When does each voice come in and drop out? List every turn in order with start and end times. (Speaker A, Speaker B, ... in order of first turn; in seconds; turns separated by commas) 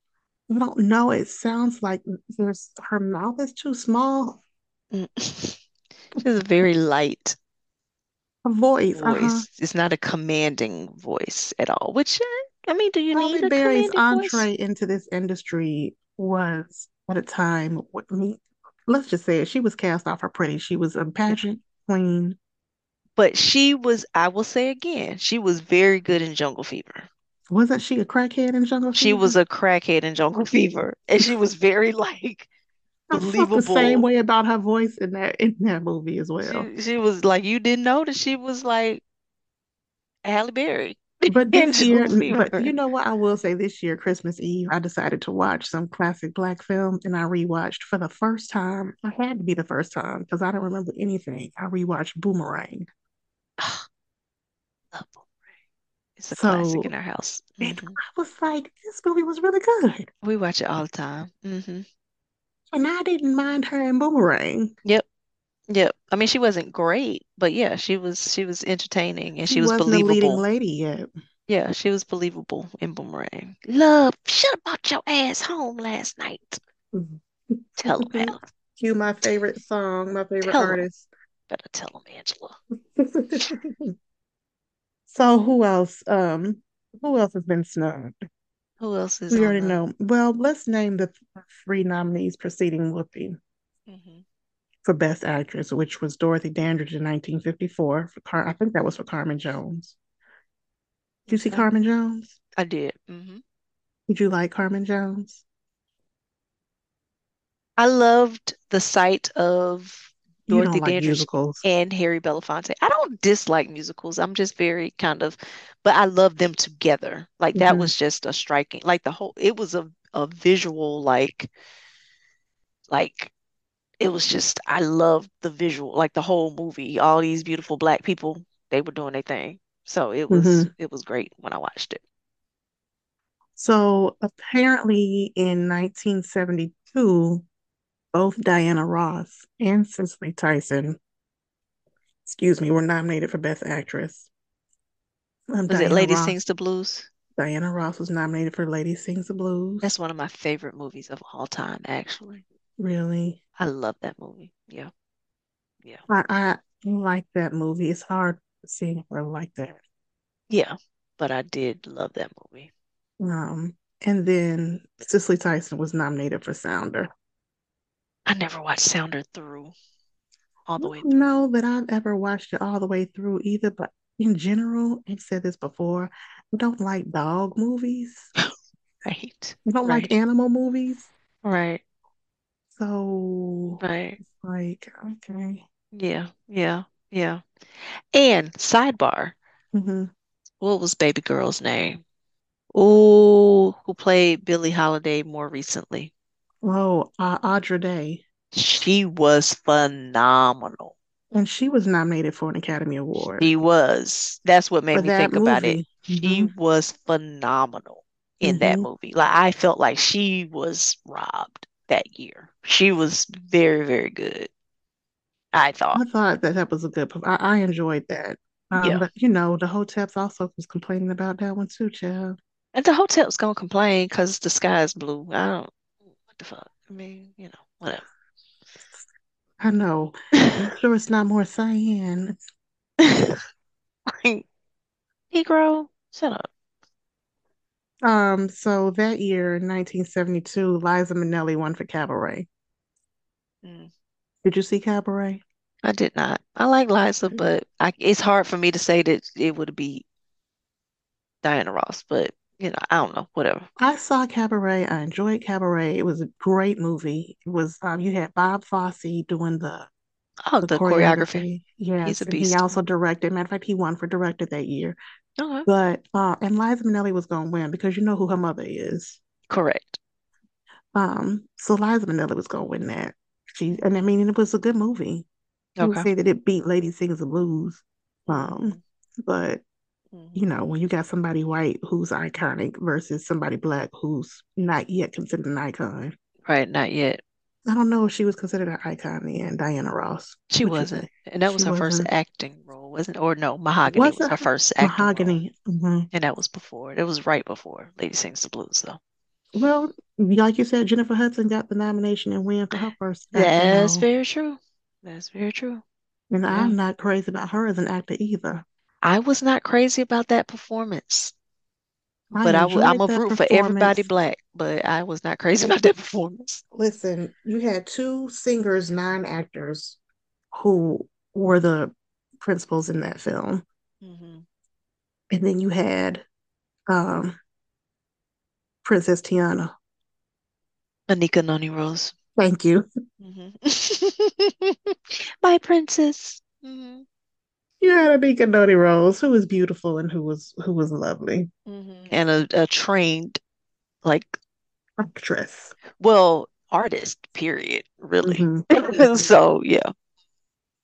Speaker A: 0.5-4.4, Speaker B: 4.9-5.6, Speaker B: 6.2-7.4, Speaker A: 8.4-9.5, Speaker B: 8.9-14.5, Speaker A: 13.1-22.4, Speaker B: 23.2-27.1, Speaker A: 27.5-29.4, Speaker B: 28.9-32.5, Speaker A: 33.1-36.7, Speaker B: 33.1-34.1, Speaker B: 36.4-39.0, Speaker B: 40.2-42.7, Speaker A: 41.3-52.9, Speaker B: 53.6-53.9, Speaker B: 54.9-55.3, Speaker B: 56.2-58.0, Speaker A: 56.3-56.9, Speaker A: 57.6-60.1, Speaker B: 60.2-61.9, Speaker A: 62.7-64.7, Speaker B: 65.7-70.4, Speaker A: 69.5-71.1, Speaker B: 71.5-76.6, Speaker A: 76.9-81.1, Speaker B: 77.8-78.4, Speaker B: 80.4-80.9, Speaker B: 81.5-82.6, Speaker A: 83.0-83.9, Speaker A: 85.1-88.2, Speaker B: 88.8-89.8, Speaker A: 89.3-93.4, Speaker B: 93.9-94.2, Speaker A: 94.8-100.0, Speaker A: 101.3-102.3, Speaker B: 102.6-103.4, Speaker A: 104.1-105.4, Speaker B: 107.8-121.5, Speaker A: 110.5-111.7, Speaker A: 117.5-117.9, Speaker B: 122.9-123.3, Speaker B: 124.0-132.0, Speaker A: 130.3-130.7, Speaker A: 133.6-137.4, Speaker A: 138.1-141.0, Speaker A: 142.2-144.3, Speaker A: 145.5-146.4, Speaker B: 145.7-147.1, Speaker A: 147.4-149.9, Speaker B: 149.8-152.4, Speaker A: 152.8-153.4, Speaker B: 153.6-154.9, Speaker A: 156.1-159.8, Speaker B: 160.5-162.7, Speaker A: 163.2-167.1, Speaker B: 168.3-169.7, Speaker B: 170.7-171.4, Speaker A: 170.8-178.3, Speaker B: 179.1-180.1, Speaker A: 179.7-181.1, Speaker B: 181.4-181.8, Speaker A: 182.8-185.6, Speaker B: 183.8-184.2, Speaker B: 185.9-189.4, Speaker A: 189.7-190.1, Speaker B: 190.6-192.0, Speaker B: 192.7-196.1, Speaker A: 196.6-198.2, Speaker B: 198.5-201.0, Speaker A: 201.3-203.5, Speaker B: 203.4-214.5, Speaker A: 204.9-206.5, Speaker A: 208.4-208.9, Speaker B: 215.5-216.0, Speaker A: 215.9-222.4, Speaker B: 218.8-219.1, Speaker B: 222.8-225.7, Speaker B: 226.3-228.0, Speaker A: 229.6-232.4, Speaker B: 233.0-233.4, Speaker B: 234.1-234.4, Speaker B: 235.3-236.5, Speaker A: 238.0-242.5, Speaker B: 243.6-243.9, Speaker A: 244.4-245.4, Speaker B: 245.8-250.1, Speaker B: 251.4-253.7, Speaker A: 253.8-259.9, Speaker B: 260.5-261.5, Speaker A: 260.6-265.0, Speaker B: 262.0-262.8, Speaker B: 265.4-265.7, Speaker A: 265.7-269.2, Speaker B: 269.5-270.0, Speaker A: 270.9-275.3, Speaker B: 275.8-276.1, Speaker A: 275.8-279.6, Speaker B: 278.3-278.8, Speaker B: 280.1-280.4, Speaker A: 280.4-286.1, Speaker B: 286.5-287.2, Speaker A: 287.7-292.1, Speaker B: 290.5-295.4, Speaker A: 293.9-296.1, Speaker B: 296.1-299.0, Speaker A: 299.6-304.1, Speaker B: 302.7-305.8, Speaker A: 306.3-308.6, Speaker B: 306.5-306.8, Speaker B: 309.0-311.3, Speaker A: 312.3-314.1, Speaker B: 312.4-316.6, Speaker A: 316.7-320.0, Speaker A: 320.5-323.6, Speaker B: 324.0-324.4, Speaker A: 325.3-326.2, Speaker A: 326.9-327.4, Speaker A: 328.8-329.7, Speaker B: 331.1-332.1, Speaker A: 332.4-332.9, Speaker B: 333.2-337.1, Speaker A: 337.8-341.5, Speaker B: 341.7-343.4, Speaker B: 344.0-344.4, Speaker A: 345.0-345.8, Speaker B: 346.0-349.9, Speaker A: 348.2-349.3